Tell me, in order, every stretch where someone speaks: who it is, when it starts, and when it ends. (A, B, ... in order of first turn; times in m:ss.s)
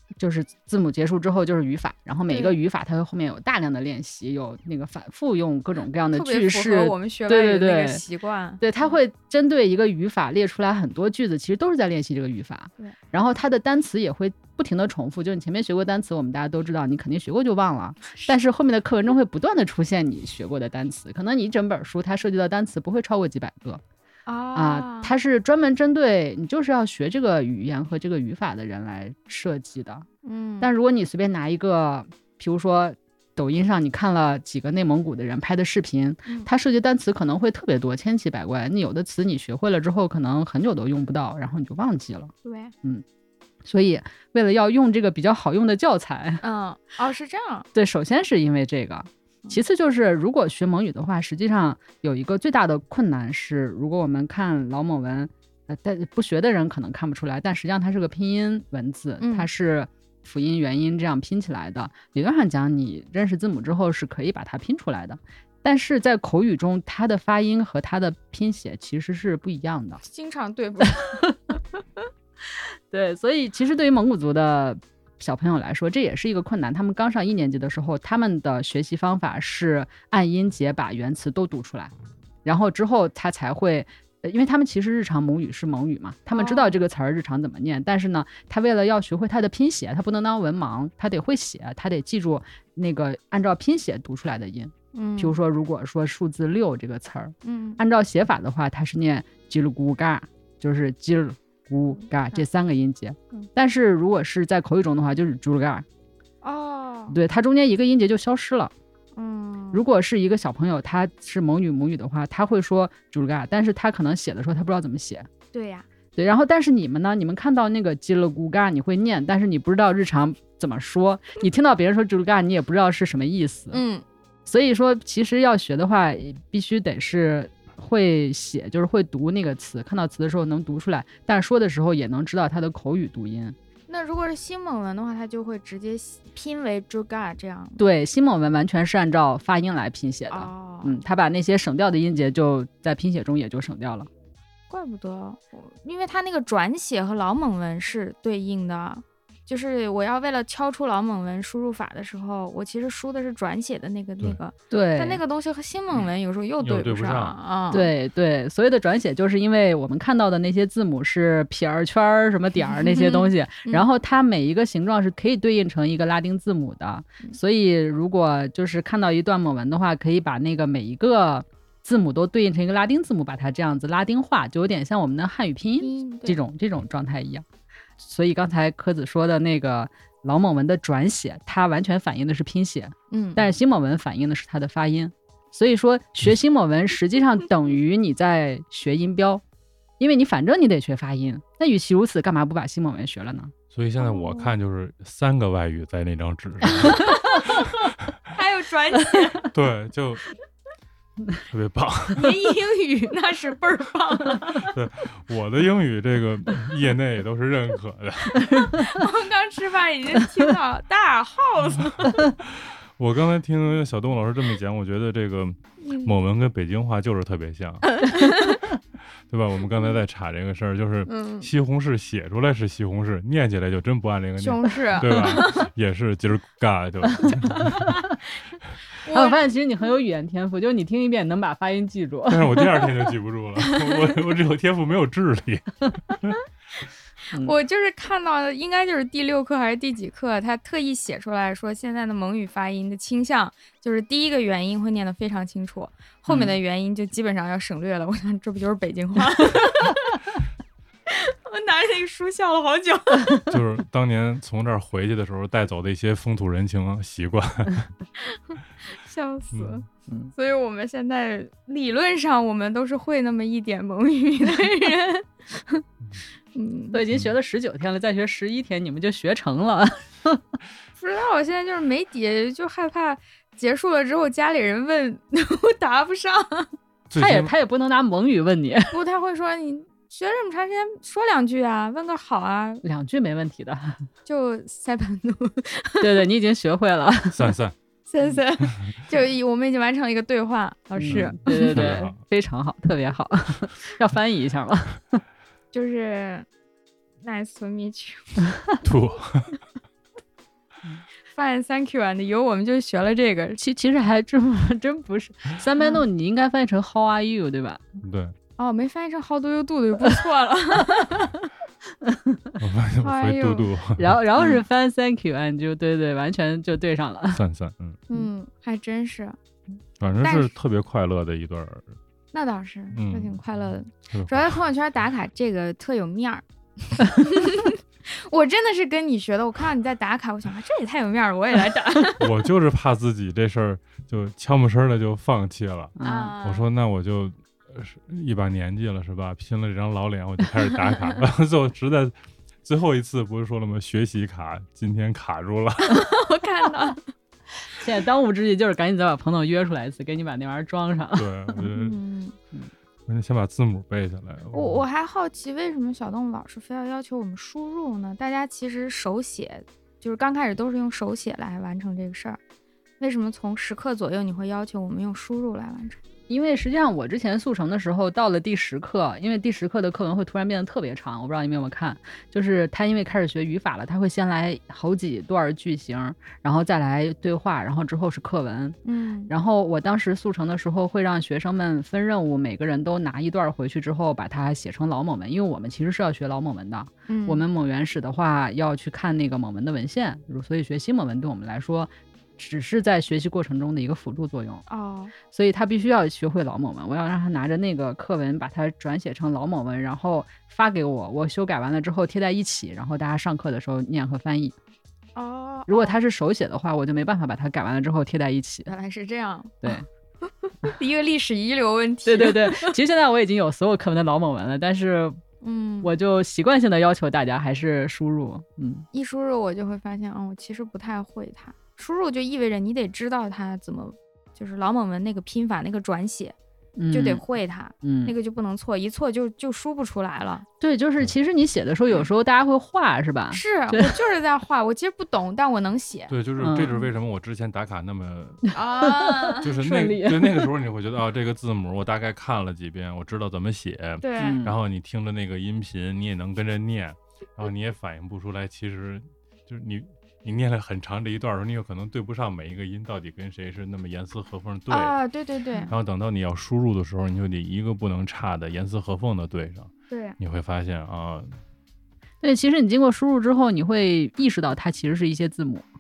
0:00.2-0:08.0 A
0:02.3-0:02.6 B
0:06.1-0:09.0 B
0:08.6-0:23.8 A
0:18.1-0:18.4 B
0:24.3-0:25.2 B
0:24.6-0:30.1 A
0:30.2-0:30.7 B
0:30.6-0:42.3 A
0:42.4-0:42.7 B
0:43.6-0:46.4 A
0:46.4-0:47.7 B
0:47.7-1:10.0 A
0:59.2-0:59.5 B
1:10.0-1:11.2 B
1:11.0-1:11.5 A
1:12.5-1:21.9 A
1:22.4-1:45.9 A
1:26.3-1:26.8 B
1:34.9-1:35.4 B
1:37.4-1:37.8 B
1:41.9-1:42.4 B
1:46.4-1:47.2 B
1:47.1-1:48.7 A
1:49.2-1:49.8 B
1:49.7-1:55.3 A
1:55.5-1:55.9 B
1:56.2-2:03.8 A
2:03.7-2:04.0 B
2:04.5-2:13.6 A
2:13.9-2:17.8 B
2:17.8-2:24.1 A
2:20.3-2:21.0 B
2:24.7-2:37.9 B
2:34.7-2:35.2 A
2:36.6-2:37.4 C
2:37.7-2:57.4 A
2:42.7-2:43.9 B
2:55.8-2:56.4 B
2:58.0-3:09.4 A
3:03.1-3:03.5 B
3:10.0-3:13.5 A
3:13.7-3:17.1 C
3:14.0-3:14.5 B
3:16.8-3:17.6 B
3:18.3-3:19.5 B
3:19.5-3:20.3 C
3:21.5-3:22.4 C
3:22.1-3:24.7 B
3:24.6-3:28.8 C
3:28.7-3:32.1 B
3:32.4-3:38.0 C
3:35.8-3:36.1 B
3:37.9-3:38.6 B
3:39.3-3:47.9 C
3:41.1-3:41.5 B
3:44.4-3:45.7 B
3:47.4-3:48.0 A
3:47.6-3:48.0 B
3:49.0-3:49.4 B
3:49.1-3:52.9 A
3:52.3-3:56.4 C
3:57.4-4:10.2 B
4:06.3-4:06.6 A
4:11.1-4:13.4 B
4:13.5-4:17.9 C
4:18.3-4:25.8 B
4:26.5-4:27.0 B
4:26.9-4:30.4 A
4:31.0-4:36.7 B
4:37.1-4:37.5 C
4:37.2-4:39.0 A
4:38.9-4:42.8 B
4:42.8-4:44.1 A
4:44.3-4:46.1 B
4:46.0-4:47.6 A
4:47.3-4:47.8 C
4:48.1-4:52.0 B
4:51.0-4:55.2 A
4:51.1-4:52.2 C
4:55.7-4:56.5 B
4:57.2-4:58.5 B
4:58.8-4:59.6 C
5:01.3-5:03.6 B
5:03.6-5:07.8 A
5:08.0-5:08.4 C
5:08.6-5:11.3 B
5:12.0-5:12.5 A
5:12.6-5:14.2 C
5:13.0-5:13.7 B
5:14.0-5:17.4 A
5:17.3-5:18.0 C
5:18.1-5:19.4 B
5:20.0-5:22.0 C
5:20.2-5:20.6 B
5:22.3-5:32.3 B
5:22.9-5:23.4 C
5:24.1-5:24.5 C
5:32.2-5:46.0 C
5:36.0-5:36.4 A
5:36.0-5:36.7 B
5:45.8-5:47.1 B
5:47.7-5:51.6 A
5:51.2-5:52.0 C
5:51.8-5:52.4 B
5:53.1-5:54.8 C
5:54.5-6:02.4 B
6:03.0-6:06.0 B
6:06.3-6:34.6 A
6:18.8-6:19.3 B
6:27.1-6:27.4 B
6:34.7-6:35.1 B
6:35.3-6:44.6 A
6:45.2-6:46.0 B
6:45.7-6:48.7 A
6:48.7-6:49.7 B
6:50.2-6:52.8 B
6:52.0-6:55.2 A
6:55.4-6:55.9 B
6:55.8-6:58.9 A
6:58.9-7:06.4 B
7:06.8-7:07.2 A
7:06.9-7:10.5 B
7:07.8-7:08.1 A
7:10.6-7:14.0 A
7:13.3-7:16.1 B
7:16.1-7:18.5 C
7:16.4-7:16.7 A
7:18.5-7:19.5 B
7:18.8-7:20.5 A
7:19.4-7:35.0 C
7:24.0-7:24.4 B
7:24.2-7:24.6 A
7:34.7-7:35.7 B
7:35.7-7:41.4 C
7:39.9-7:40.2 B
7:42.2-7:45.7 A